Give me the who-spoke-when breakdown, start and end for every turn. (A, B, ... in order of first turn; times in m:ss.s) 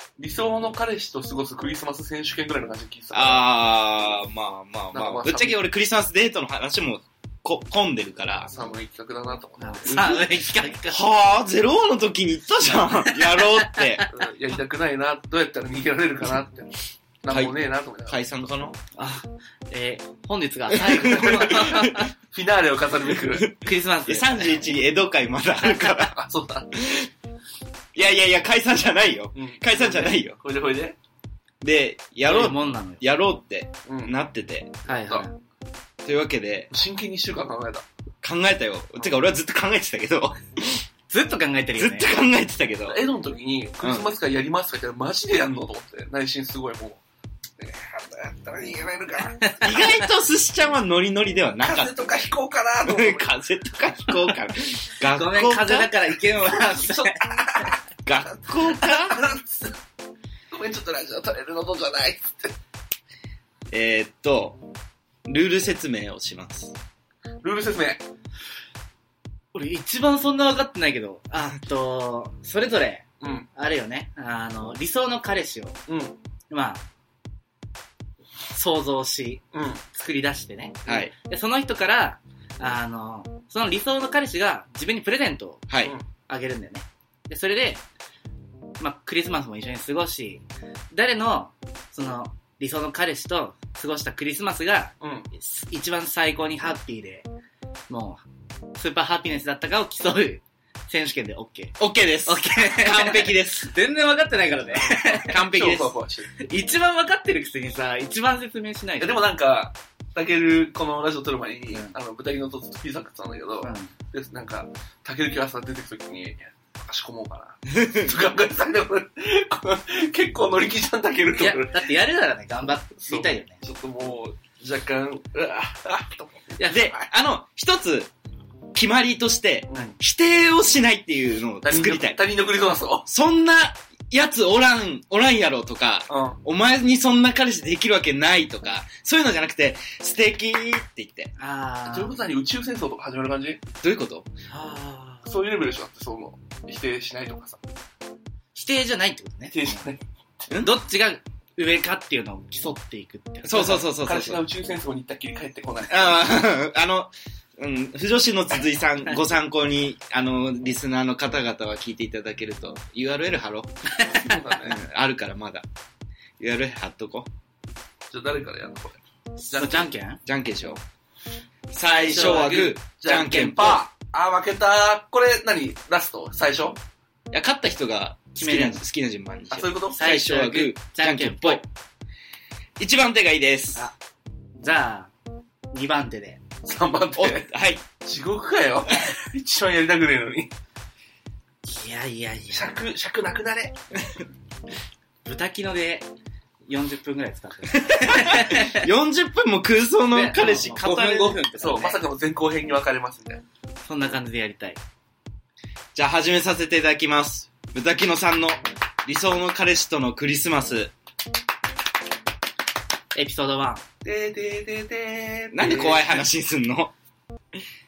0:00.2-0:03.5 A
0:03.1-0:08.6 B
0:04.9-0:05.6 A
0:08.5-0:10.1 A
0:09.6-0:11.0 C
0:09.9-0:10.2 B
0:10.9-0:14.1 B
0:13.4-0:14.1 C
0:14.1-0:18.6 A
0:17.3-0:17.5 B
0:18.0-0:18.8 B
0:18.9-0:22.1 C
0:20.7-0:22.1 B
0:21.1-0:23.5 A
0:23.3-0:26.1 B
0:23.5-0:24.6 C
0:26.1-0:26.8 A
0:26.8-0:27.1 B
0:27.9-0:30.4 B
0:29.3-0:31.0 A
0:31.6-0:34.7 B
0:32.2-0:33.0 C
0:33.9-0:34.2 A
0:34.8-0:35.4 C
0:36.0-0:36.7 B
0:36.7-0:37.8 A
0:38.2-0:40.8 B
0:41.1-0:42.1 C
0:41.7-0:43.0 B
0:42.8-0:47.0 A
0:43.8-0:44.1 B
0:47.6-0:49.6 A
0:49.4-0:50.0 C
0:49.6-0:52.3 B
0:51.6-0:53.3 A
0:52.8-0:55.9 B
0:55.0-0:57.5 C
0:56.9-0:57.7 A
0:58.0-0:59.2 B
0:58.4-0:59.8 A
1:00.5-1:02.6 A
1:03.7-1:04.6 B
1:05.2-1:06.8 B
1:07.4-1:08.0 A
1:09.5-1:15.8 C
1:13.2-1:13.5 A
1:15.9-1:16.2 A
1:16.5-1:16.8 C
1:18.5-1:25.7 C
1:19.5-1:19.8 A
1:20.8-1:21.1 B
1:25.7-1:26.0 B
1:26.3-1:27.8 C
1:28.8-1:37.3 C
1:35.0-1:35.3 A
1:37.9-1:38.2 C
1:38.7-1:45.3 C
1:41.8-1:43.7 B
1:44.8-1:46.3 A
1:45.2-1:46.0 B
1:46.4-1:49.2 C
1:49.0-2:01.9 A
1:53.6-1:53.9 C
1:57.8-1:58.1 B
2:01.4-2:03.6 C
2:03.0-2:06.6 A
2:06.6-2:06.9 C
2:06.7-2:08.1 B
2:08.7-2:12.2 B
2:09.7-2:10.0 A
2:11.6-2:13.1 A
2:13.0-2:21.3 B
2:16.1-2:16.4 A
2:21.4-2:22.2 C
2:21.9-2:23.6 A
2:23.8-2:24.3 B
2:24.5-2:25.3 C
2:25.2-2:27.6 A
2:28.5-2:29.8 C
2:29.5-2:30.0 A
2:30.6-2:33.8 C
2:33.4-2:34.4 B
2:33.5-2:36.2 A
2:35.9-2:43.9 B
2:44.0-2:44.3 C
2:44.1-2:44.8 A
2:44.6-2:45.6 B
2:46.4-2:47.3 B
2:48.1-2:49.0 A
2:49.4-2:50.2 C
2:49.5-2:49.9 A
2:50.2-2:50.8 B
2:51.7-2:53.8 B
2:51.9-2:56.8 A
2:52.0-2:52.6 C
2:57.3-3:01.6 B
2:58.4-2:58.8 C
2:59.5-3:00.0 A
2:59.9-3:01.6 C
3:02.8-3:03.9 B
3:04.6-3:05.1 C
3:05.7-3:06.4 C
3:06.6-3:10.5 A
3:07.2-3:07.8 B
3:11.6-3:12.7 C
3:12.5-3:13.7 A
3:15.2-3:16.1 C
3:16.7-3:18.9 C
3:17.8-3:21.4 B
3:20.1-3:22.0 C
3:21.4-3:23.4 A
3:23.8-3:24.8 C
3:25.9-3:30.9 B
3:33.1-3:33.8 C
3:34.0-3:36.2 A
3:35.5-3:36.9 B